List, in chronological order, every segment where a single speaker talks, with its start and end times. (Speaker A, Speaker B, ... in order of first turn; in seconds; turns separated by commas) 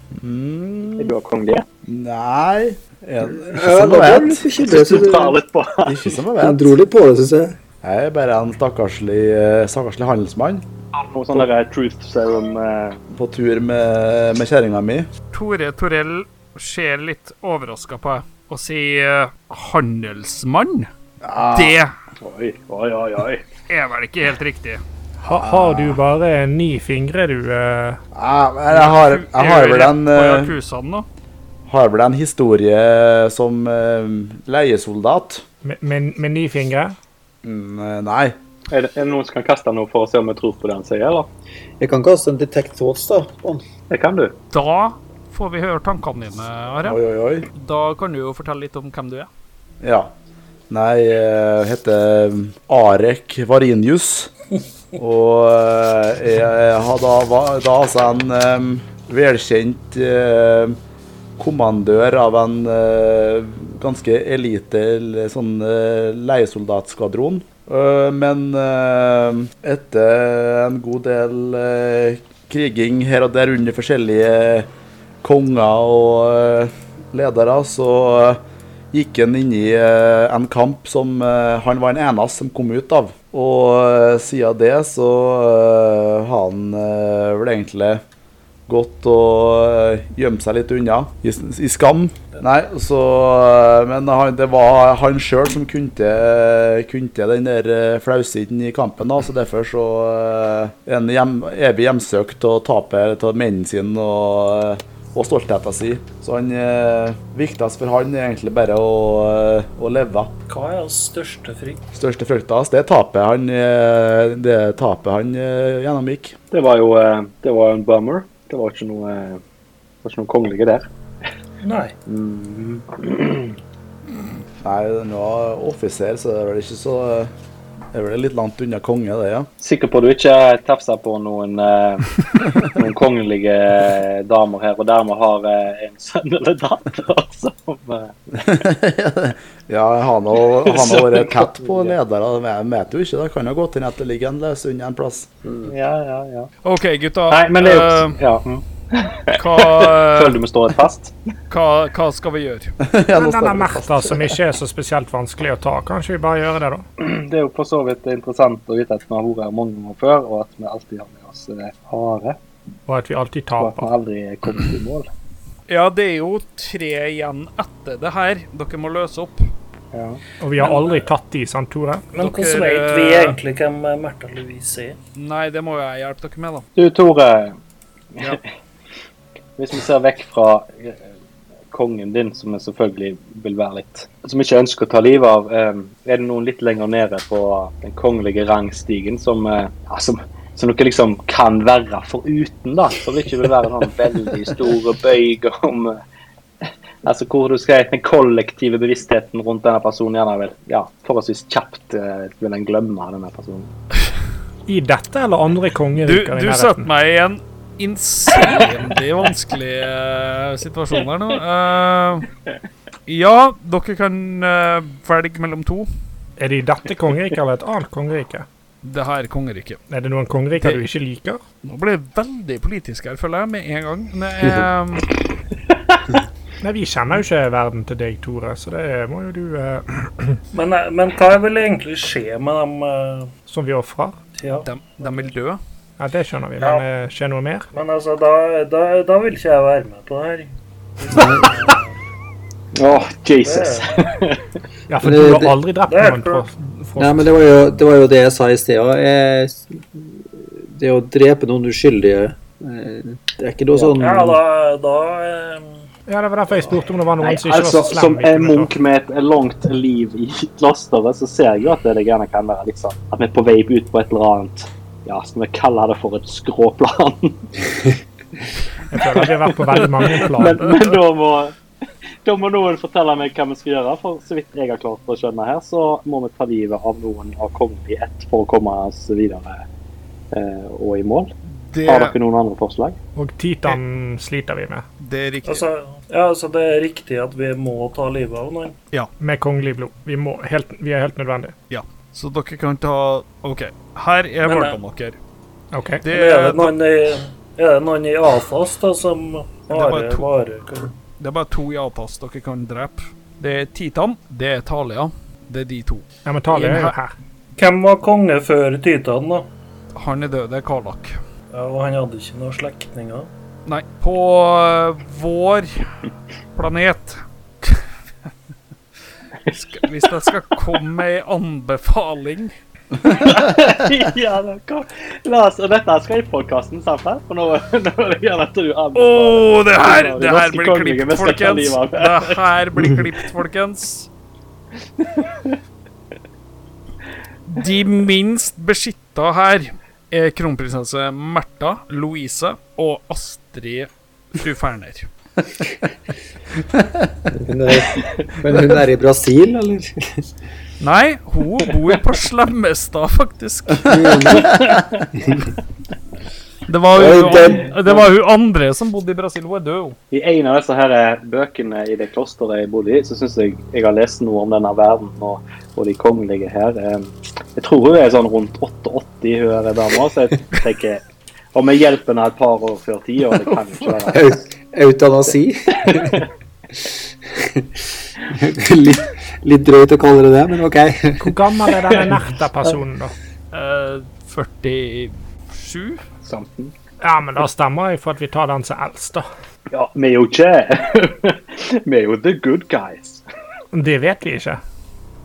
Speaker A: 0.2-1.1, Speaker B: 1.0-1.6, Speaker A: 1.9-4.5, Speaker C: 3.3-5.4, Speaker B: 4.6-6.1, Speaker A: 5.8-6.7, Speaker C: 6.4-7.5, Speaker A: 7.8-10.6, Speaker B: 10.9-13.0, Speaker A: 13.1-15.1, Speaker D: 15.3-20.9, Speaker A: 21.2-21.8, Speaker D: 21.5-21.9, Speaker B: 22.2-23.4, Speaker D: 23.7-24.8, Speaker E: 25.2-28.0, Speaker A: 25.3-26.0, Speaker A: 28.1-30.5, Speaker D: 28.7-31.1, Speaker A: 31.7-35.4, Speaker E: 35.6-36.9, Speaker A: 37.4-38.3, Speaker B: 38.7-41.3, Speaker C: 41.8-43.6, Speaker B: 43.9-44.4, Speaker D: 44.5-47.0, Speaker A: 46.8-47.5, Speaker D: 47.5-49.3, Speaker A: 49.8-50.1, Speaker A: 50.7-54.3, Speaker A: 55.0-60.8, Speaker A: 61.4-74.7, Speaker A: 75.2-88.0, Speaker A: 88.7-110.3, Speaker F: 110.5-111.8, Speaker A: 111.9-116.3, Speaker B: 116.5-119.4, Speaker B: 120.0-120.8, Speaker F: 121.6-121.9, Speaker B: 122.1-123.5, Speaker A: 124.6-127.3, Speaker A: 127.9-129.5, Speaker B: 129.6-138.2, Speaker A: 138.4-145.3, Speaker B: 140.6-141.9, Speaker B: 145.6-146.5, Speaker D: 146.6-148.2, Speaker B: 147.3-151.1, Speaker D: 149.3-150.4, Speaker D: 151.5-152.7, Speaker A: 152.8-154.3, Speaker E: 153.1-156.8, Speaker B: 157.0-162.4, Speaker E: 162.9-163.9, Speaker B: 163.6-165.1, Speaker D: 165.7-169.4, Speaker B: 169.9-170.2, Speaker E: 170.4-172.1, Speaker F: 170.6-171.0, Speaker F: 172.1-175.0, Speaker D: 172.2-173.4, Speaker D: 175.2-176.7, Speaker B: 176.8-177.5, Speaker B: 179.6-181.0, Speaker B: 181.7-196.0, Speaker B: 197.0-203.7, Speaker E: 204.7-206.9, Speaker D: 206.0-212.3, Speaker D: 213.1-215.9, Speaker E: 216.4-218.4, Speaker D: 218.8-219.8, Speaker E: 219.9-221.4, Speaker D: 221.6-225.1, Speaker E: 226.6-230.4, Speaker F: 230.5-233.3, Speaker E: 233.5-234.2, Speaker F: 234.4-234.7, Speaker D: 234.6-235.6, Speaker E: 236.0-237.7, Speaker F: 236.6-236.8, Speaker F: 237.7-241.9, Speaker C: 241.1-241.7, Speaker B: 242.8-244.4, Speaker F: 243.4-244.0, Speaker E: 244.9-247.3, Speaker C: 245.0-245.6, Speaker F: 245.9-246.4, Speaker C: 247.0-254.4, Speaker F: 254.0-255.8, Speaker E: 256.1-258.7, Speaker B: 257.2-267.5, Speaker E: 268.9-270.7, Speaker B: 269.0-271.6, Speaker D: 270.6-270.9, Speaker B: 272.2-279.6, Speaker B: 280.3-281.3, Speaker D: 281.4-282.1, Speaker B: 281.9-282.9, Speaker E: 283.1-284.8, Speaker D: 285.0-285.6, Speaker F: 285.4-288.8, Speaker E: 289.2-291.5, Speaker D: 291.7-295.1, Speaker F: 294.4-294.8, Speaker E: 295.7-296.0, Speaker D: 296.0-296.7, Speaker F: 296.1-300.9, Speaker D: 299.7-300.3, Speaker D: 301.2-306.9, Speaker E: 306.2-307.1, Speaker F: 307.6-309.5, Speaker D: 309.9-311.1, Speaker F: 311.5-313.3, Speaker D: 313.7-315.9, Speaker D: 316.6-317.8, Speaker D: 319.5-322.5, Speaker B: 323.1-332.4, Speaker D: 328.9-334.1, Speaker B: 335.0-335.5, Speaker D: 337.5-345.1, Speaker C: 347.3-350.2, Speaker D: 350.8-353.9, Speaker C: 353.9-355.4, Speaker B: 354.3-355.1, Speaker D: 356.7-360.0, Speaker C: 356.9-357.8, Speaker B: 360.1-371.0, Speaker B: 371.5-374.3, Speaker C: 374.0-376.2, Speaker B: 375.8-376.2, Speaker C: 376.8-381.5, Speaker E: 381.2-383.1, Speaker D: 383.5-386.0, Speaker B: 386.2-386.7, Speaker E: 387.0-389.2, Speaker B: 389.7-393.2, Speaker E: 393.7-394.6